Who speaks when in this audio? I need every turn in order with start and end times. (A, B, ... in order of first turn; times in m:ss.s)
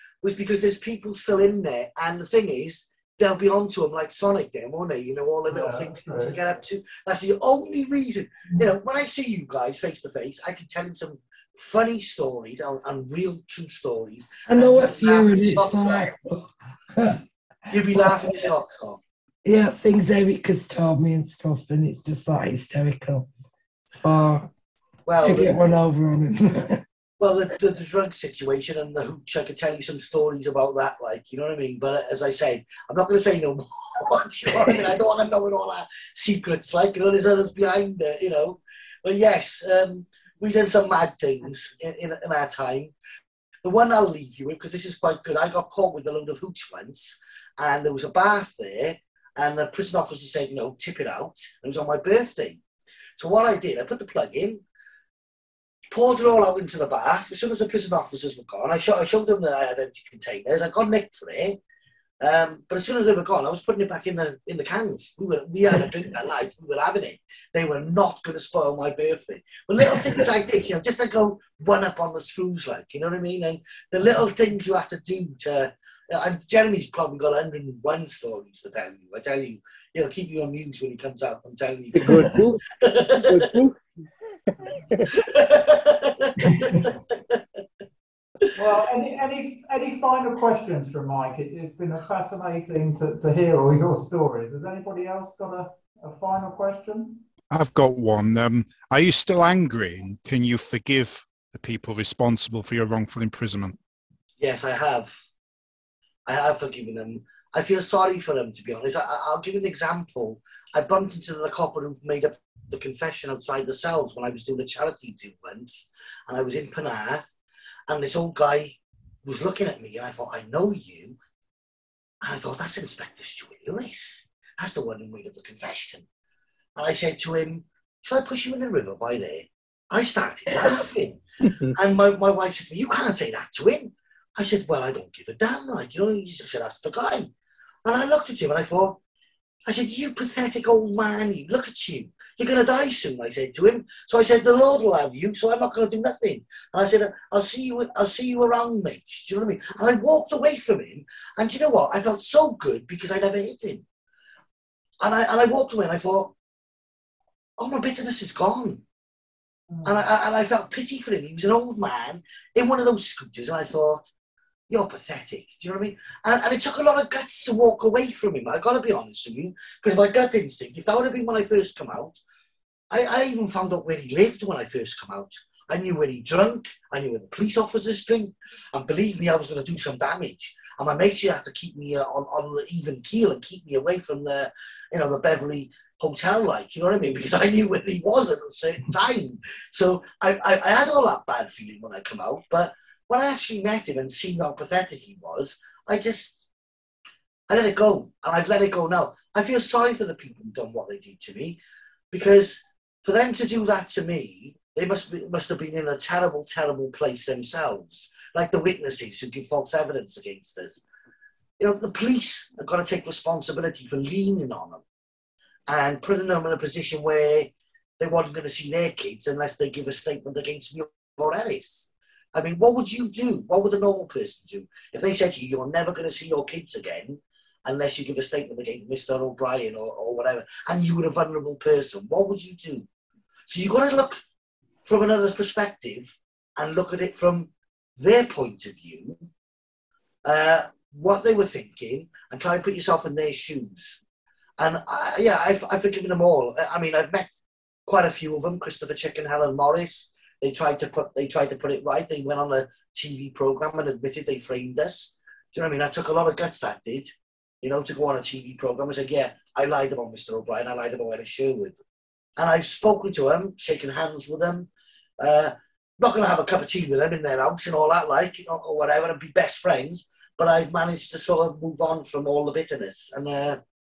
0:00.2-0:16.1 A
0:05.5-0:06.4 B
0:14.5-0:17.2 C
0:17.7-0:19.0 A
0:17.9-0:18.4 C
0:19.4-0:23.3 C
0:23.9-0:24.5 C
0:25.0-0:25.6 A
0:25.2-0:26.8 C
0:27.2-0:42.9 A
0:43.6-0:52.6 A
0:53.2-0:54.6 A
0:55.9-1:01.6 A
1:02.2-1:23.4 A
1:21.9-1:23.8 D
1:24.6-1:25.2 D
1:25.2-1:27.4 A
1:26.4-1:26.8 C
1:28.5-1:37.2 B
1:37.5-1:43.8 E
1:44.4-1:45.1 A
1:46.3-1:57.3 A
1:57.9-2:01.2 A
2:02.2-2:06.0 A
2:06.8-2:11.2 A
2:11.7-2:17.3 A
2:17.8-2:19.0 A
2:19.6-2:33.8 A
2:35.0-2:36.3 A
2:37.6-2:38.8 A
2:39.7-2:40.0 B
2:39.8-2:44.1 A
2:44.7-2:52.2 A
2:52.9-3:16.4 A
3:17.5-3:21.6 A
3:22.1-3:30.8 A
3:31.6-3:34.8 A
3:35.7-3:52.9 A
3:53.5-3:54.2 A
3:54.8-3:59.2 A
4:00.2-4:04.0 A
4:04.6-4:07.3 A
4:07.8-4:21.8 A
4:22.4-4:33.6 A